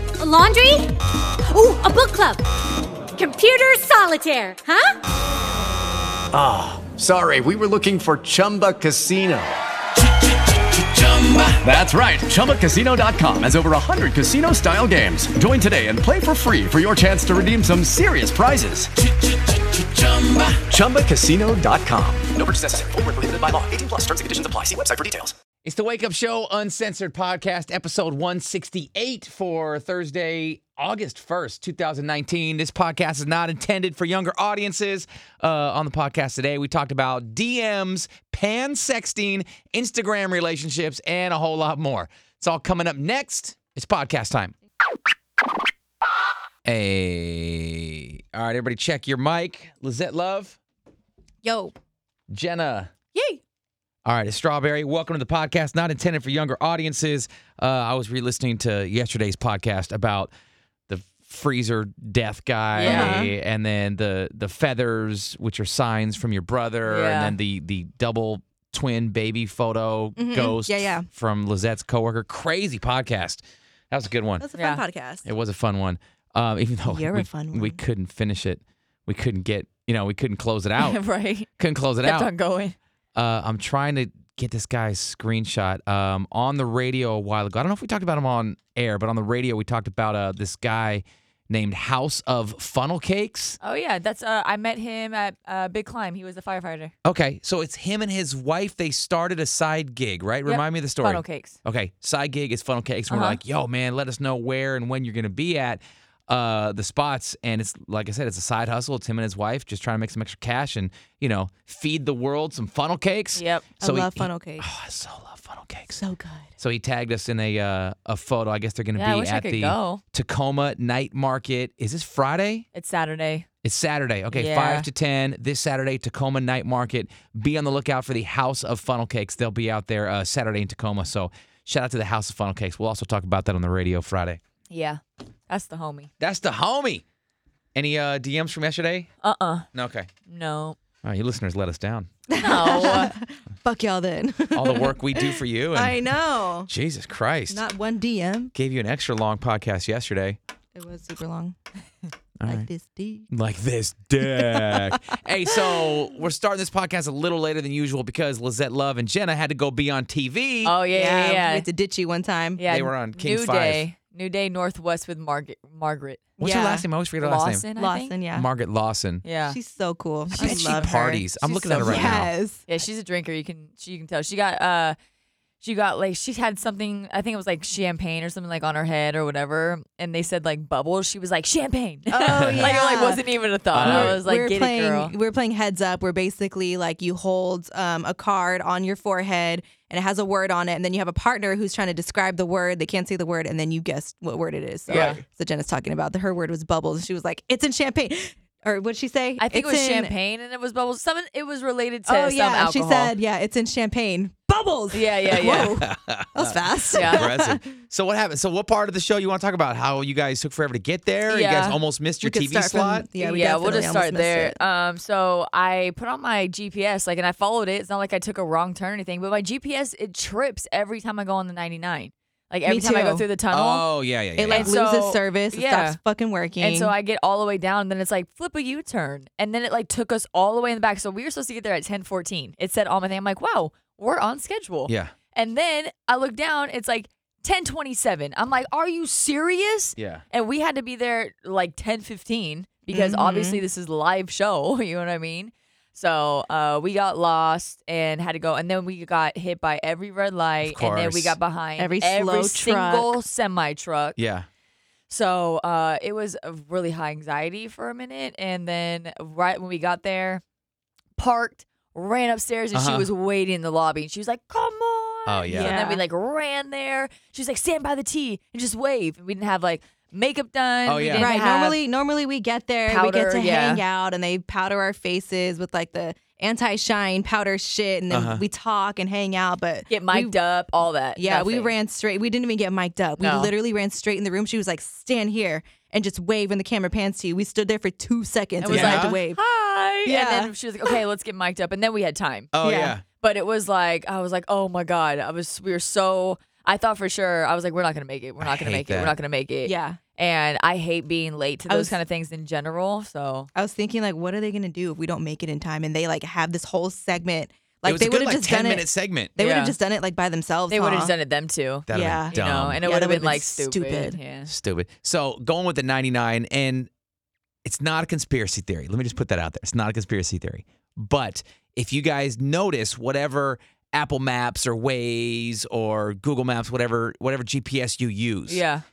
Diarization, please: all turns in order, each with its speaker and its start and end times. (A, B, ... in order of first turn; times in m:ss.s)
0:00.2-0:00.9 A
0:01.5-0:02.4 A
0:03.2-0:05.0 A
0:06.3-0:09.6 B
0:10.4-0:18.9 B
0:20.0-0:25.3 B
0:25.6-0:44.5 C
0:46.6-0:50.6 C
0:51.4-0:51.7 D
0:52.3-0:52.9 C
0:53.1-0:53.4 D
0:54.0-1:00.3 C
1:00.9-1:14.4 C
1:02.8-1:03.2 E
1:02.8-1:03.3 D
1:06.8-1:07.3 E
1:10.2-1:11.1 D
1:14.4-1:15.3 D
1:14.6-1:14.8 E
1:15.2-1:21.0 C
1:16.9-1:17.8 D
1:20.8-1:21.5 E
1:21.6-1:22.3 C
1:22.0-1:22.8 E
1:23.2-1:33.6 C
1:33.6-1:36.9 E
1:37.0-1:56.0 C
1:40.4-1:41.6 E
1:43.1-1:43.4 E
1:53.3-1:53.6 E
1:53.8-1:54.7 D
1:55.9-1:56.5 D
1:56.6-2:02.7 C
1:58.9-2:00.0 E
2:02.7-2:03.5 E
2:03.6-2:14.4 C
2:04.3-2:04.9 E
2:14.7-2:16.1 E
2:16.2-2:17.0 C
2:17.8-2:19.1 C
2:19.2-2:19.7 E
2:19.7-2:20.1 C
2:20.3-2:20.8 E
2:21.0-2:22.1 C
2:22.3-2:26.7 D
2:22.4-2:23.1 E
2:24.5-2:26.0 C
2:26.7-2:27.6 C
2:27.5-2:28.5 D
2:28.6-2:30.4 C
2:30.8-2:31.6 D
2:32.4-2:32.7 C
2:32.5-2:33.3 D
2:33.3-2:40.8 C
2:34.2-2:36.0 D
2:40.6-2:41.7 E
2:40.9-2:42.6 D
2:42.6-2:46.2 E
2:42.7-2:43.8 C
2:46.4-2:46.8 D
2:46.4-2:47.6 C
2:47.2-2:48.2 E
2:47.8-2:48.5 D
2:48.4-2:49.2 C
2:49.2-2:49.6 E
2:49.5-2:52.6 D
2:50.3-2:52.3 C
2:50.3-2:55.0 E
2:55.6-3:05.2 E
3:02.1-3:03.2 D
3:02.4-3:02.8 C
3:03.7-3:04.2 C
3:03.8-3:20.1 D
3:14.9-3:15.2 E
3:14.9-3:15.2 C
3:19.4-3:23.1 E
3:22.1-3:27.6 D
3:24.9-3:25.8 E
3:25.5-3:33.1 C
3:26.9-3:27.2 E
3:31.3-3:31.8 E
3:32.2-3:34.6 D
3:33.2-3:43.8 E
3:42.7-3:43.2 D
3:43.5-3:44.7 C
3:44.4-3:46.9 D
3:44.5-3:46.0 E
3:46.6-4:14.2 E
3:54.9-3:55.1 C
4:00.0-4:00.2 C
4:02.9-4:03.6 D
4:10.6-4:11.4 C
4:11.8-4:13.2 D
4:14.2-4:14.5 C
4:15.1-4:20.4 E
4:21.2-4:31.8 E
4:22.7-4:23.1 C
4:25.3-4:25.8 C
4:25.5-4:26.0 D
4:30.9-4:31.3 C
4:31.2-4:40.4 D
4:32.9-4:33.8 E
4:38.1-4:38.4 C
4:39.9-4:41.7 E
4:41.2-4:49.4 D
4:43.2-4:43.5 E
4:48.6-4:52.5 E
4:48.7-4:49.2 C
4:50.0-4:50.9 D
4:52.5-4:53.0 C
4:52.6-4:53.0 D
4:53.2-5:03.5 E
4:58.4-4:59.2 C
4:59.7-5:00.0 D
5:01.7-5:02.0 D
5:03.6-5:11.1 D
5:07.8-5:09.3 C
5:09.4-5:09.8 E
5:10.7-5:14.5 E
5:11.9-5:12.8 C
5:11.9-5:14.2 D
5:14.5-5:16.9 C
5:17.6-5:28.6 C
5:28.5-5:28.8 E